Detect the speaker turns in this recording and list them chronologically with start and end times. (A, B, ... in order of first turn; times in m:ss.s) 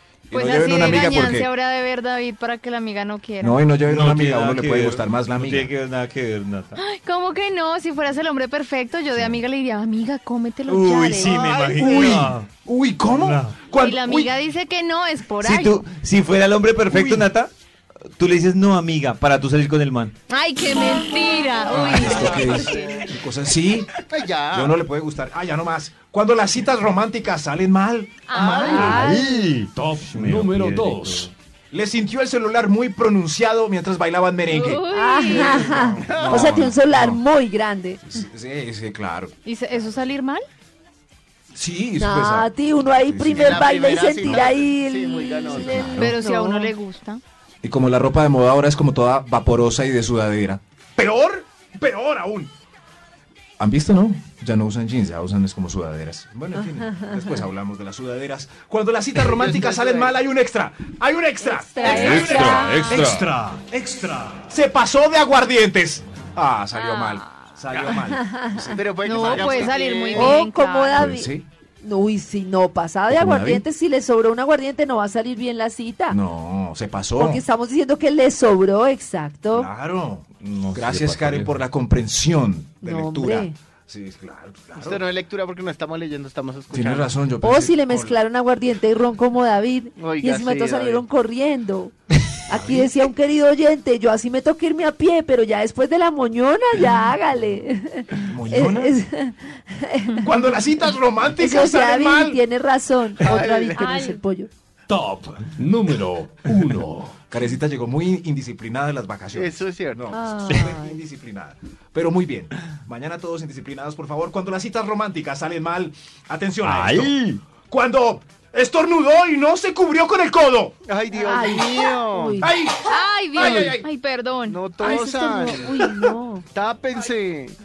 0:00.3-0:01.5 A
0:00.3-0:03.6 B
0:03.4-0:05.7 A
0:03.8-0:06.8 C
0:06.8-0:11.9 B
0:10.7-0:12.5 C
0:11.5-0:14.3 A
0:13.1-0:13.6 C
0:13.7-0:15.8 B
0:15.4-0:17.5 C
0:16.9-0:17.2 A
0:18.2-0:20.1 C
0:20.3-0:23.1 B
0:21.7-0:23.9 A
0:24.1-0:24.8 D
0:24.5-0:28.3 A
0:28.3-0:29.2 B
0:28.3-0:28.9 D
0:28.4-0:29.5 E
0:28.5-0:31.3 C
0:29.7-0:31.3 F
0:31.7-0:37.2 A
0:34.5-0:35.8 B
0:34.9-0:38.0 E
0:36.0-0:36.6 D
0:38.0-0:39.8 A
0:39.4-0:40.4 B
0:41.5-0:43.8 A
0:42.0-0:46.7 E
0:43.3-0:45.9 D
0:45.5-0:46.2 A
0:45.9-0:47.2 B
0:47.6-0:52.5 A
0:53.6-1:09.7 A
0:56.6-0:57.2 E
0:59.2-1:00.2 D
1:01.4-1:02.8 E
1:01.8-1:03.3 C
1:03.0-1:04.2 F
1:06.7-1:07.5 B
1:08.0-1:08.8 E
1:08.7-1:10.4 D
1:09.0-1:11.1 B
1:10.1-1:16.2 E
1:10.9-1:11.5 A
1:13.1-1:13.6 A
1:16.1-1:17.4 A
1:17.2-1:19.7 E
1:19.5-1:25.0 A
1:20.4-1:21.6 C
1:22.8-1:23.5 E
1:24.7-1:27.1 D
1:26.7-1:28.2 A
1:27.4-1:31.9 E
1:30.0-1:31.0 D
1:32.4-1:40.3 E
1:32.5-1:32.9 A
1:38.2-1:39.0 A
1:40.2-1:42.4 A
1:41.4-1:44.5 E
1:43.2-1:43.9 D
1:43.7-1:44.2 B
1:44.9-1:47.2 F
1:47.3-1:57.2 A
1:49.3-1:50.0 D
1:50.1-1:51.0 E
1:56.6-1:57.4 C
1:57.7-2:00.8 A
2:00.9-2:02.5 D
2:01.2-2:02.5 E
2:02.4-2:03.9 A
2:02.8-2:04.6 B
2:04.5-2:06.0 D
2:04.8-2:06.4 E
2:06.5-2:07.6 D